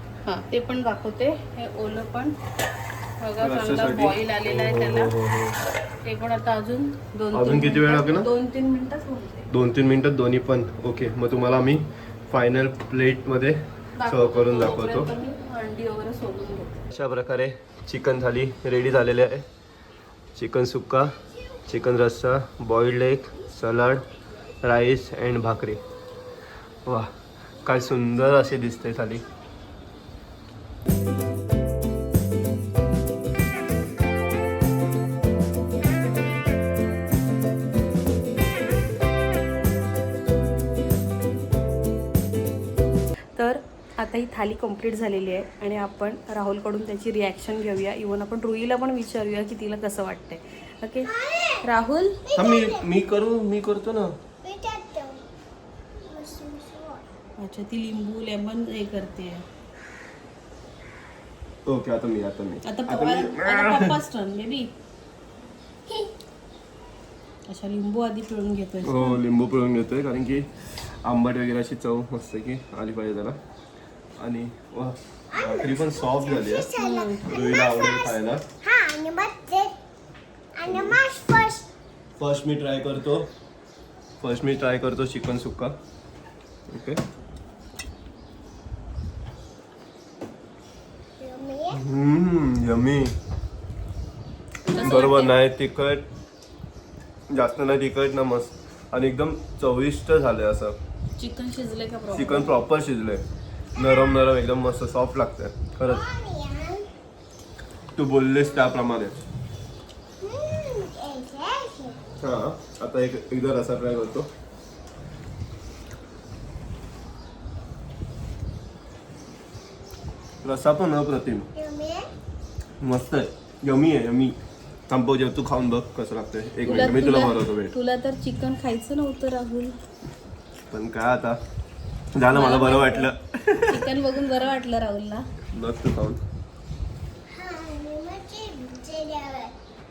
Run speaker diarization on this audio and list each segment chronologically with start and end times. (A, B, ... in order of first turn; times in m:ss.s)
0:00.3-0:02.4 A
0:03.2-0:05.1 A
0:03.4-0:05.6 B
0:06.0-0:09.5 A
0:07.3-0:08.3 B
0:09.5-0:15.1 B
0:14.0-0:16.9 A
0:16.9-0:19.5 B
0:20.4-0:21.2 B
0:21.7-0:24.0 B
0:24.6-0:25.8 B
0:26.9-0:27.1 B
0:27.6-0:29.2 B
0:43.4-0:51.1 A
0:51.2-0:51.6 C
0:51.6-0:52.2 A
0:52.2-0:52.9 C
0:52.3-0:54.2 B
0:54.4-0:55.2 C
0:56.0-0:57.0 C
0:57.4-0:59.4 A
1:01.7-1:04.0 B
1:02.6-1:04.7 A
1:05.9-1:06.1 C
1:07.5-1:09.2 A
1:08.8-1:13.4 B
1:14.2-1:16.7 B
1:15.3-1:19.8 C
1:16.8-1:17.4 A
1:17.3-1:18.4 B
1:20.6-1:21.7 C
1:20.7-1:21.0 B
1:22.2-1:23.3 B
1:24.2-1:25.8 B
1:26.7-1:27.0 B
1:31.2-1:31.8 C
1:31.7-1:33.2 B
1:34.6-1:35.4 A
1:34.7-1:36.1 B
1:37.3-1:40.8 B
1:41.2-1:42.6 A
1:42.1-1:43.2 B
1:43.8-1:46.1 B
1:43.8-1:44.3 C
1:45.8-1:46.9 C
1:48.0-1:49.2 B
1:50.2-1:52.0 C
1:52.2-1:54.3 B
2:00.4-2:01.5 B
2:01.6-2:02.1 C
2:02.8-2:04.4 B
2:04.9-2:07.7 B
2:06.6-2:09.8 A
2:10.7-2:11.4 B
2:12.2-2:13.9 B
2:12.3-2:13.1 A
2:13.7-2:15.3 A
2:15.5-2:16.2 B
2:17.3-2:19.6 C